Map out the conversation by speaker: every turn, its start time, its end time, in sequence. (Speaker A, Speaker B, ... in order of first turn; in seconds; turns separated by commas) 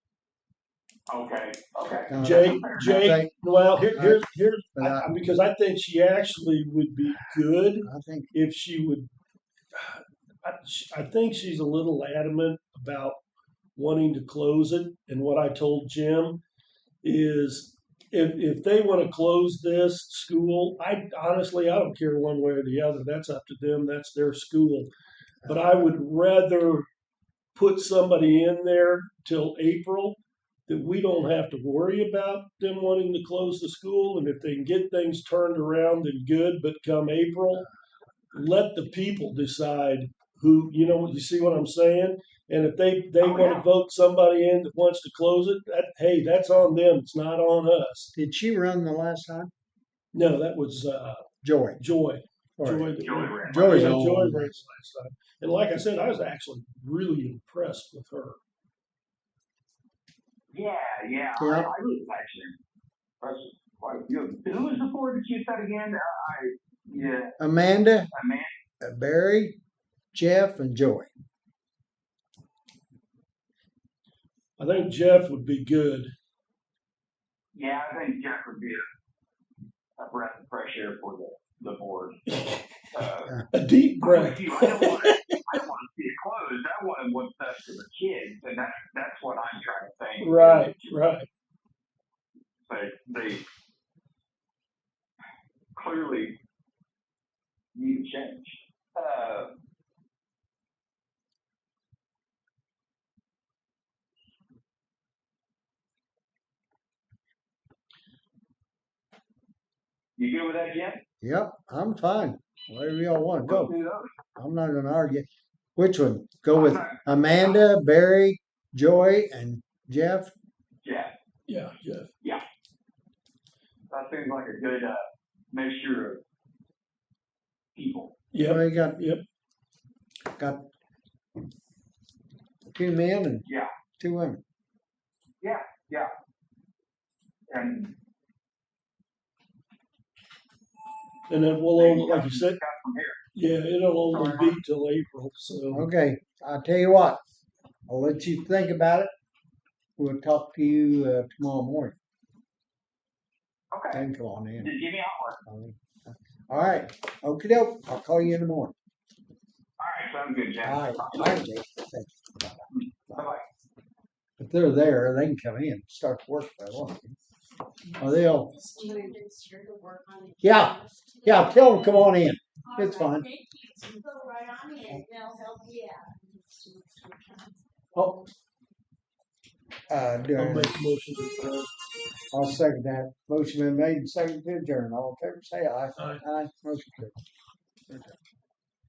Speaker A: 1.1-2.9, Speaker B: 2.1-3.3, Speaker C: 2.2-9.1, Speaker B: 3.9-5.1, Speaker B: 7.8-8.3, Speaker C: 9.7-13.2, Speaker C: 13.8-16.4, Speaker C: 17.0-24.9, Speaker B: 25.4-25.7, Speaker C: 25.4-26.9, Speaker C: 27.5-37.7, Speaker C: 38.3-48.1, Speaker A: 43.2-43.6, Speaker B: 48.1-49.5, Speaker C: 50.1-58.4, Speaker B: 51.4-51.8, Speaker B: 52.6-54.6, Speaker A: 53.0-53.7, Speaker A: 60.5-62.6, Speaker B: 61.4-61.7, Speaker A: 63.2-67.3, Speaker B: 67.4-68.1, Speaker A: 68.1-68.5, Speaker B: 68.8-69.6, Speaker B: 70.1-71.1, Speaker C: 74.6-76.1, Speaker A: 77.5-78.8, Speaker A: 80.0-82.2, Speaker A: 82.9-83.3, Speaker C: 83.5-85.6, Speaker A: 84.0-90.9, Speaker C: 90.2-91.3, Speaker A: 92.7-93.4, Speaker A: 95.7-96.4, Speaker A: 97.7-99.5, Speaker A: 110.2-111.0, Speaker B: 111.2-113.7, Speaker A: 113.4-114.1, Speaker B: 114.3-120.3, Speaker A: 116.5-117.6, Speaker A: 120.8-121.1, Speaker C: 121.5-122.1, Speaker A: 123.9-126.2, Speaker A: 127.7-128.1, Speaker C: 128.3-129.2, Speaker B: 128.4-129.1, Speaker B: 130.3-130.7, Speaker B: 132.7-133.4, Speaker B: 134.0-134.4, Speaker A: 135.4-136.1, Speaker A: 137.5-137.9, Speaker C: 141.3-142.6, Speaker A: 141.8-143.2, Speaker C: 143.3-145.8, Speaker A: 144.1-144.4, Speaker B: 145.7-147.2, Speaker B: 147.9-149.1, Speaker B: 150.0-152.0, Speaker A: 153.7-154.1, Speaker B: 153.9-154.7, Speaker A: 154.6-155.4, Speaker B: 155.4-158.7, Speaker A: 159.8-161.4, Speaker B: 160.6-162.5, Speaker A: 162.8-163.4, Speaker B: 164.4-167.2, Speaker D: 167.9-172.1, Speaker B: 168.0-168.5, Speaker B: 170.4-173.3, Speaker D: 172.6-177.7, Speaker B: 177.9-178.3, Speaker B: 179.9-180.8, Speaker C: 180.3-181.7, Speaker B: 182.3-187.1, Speaker C: 186.0-186.2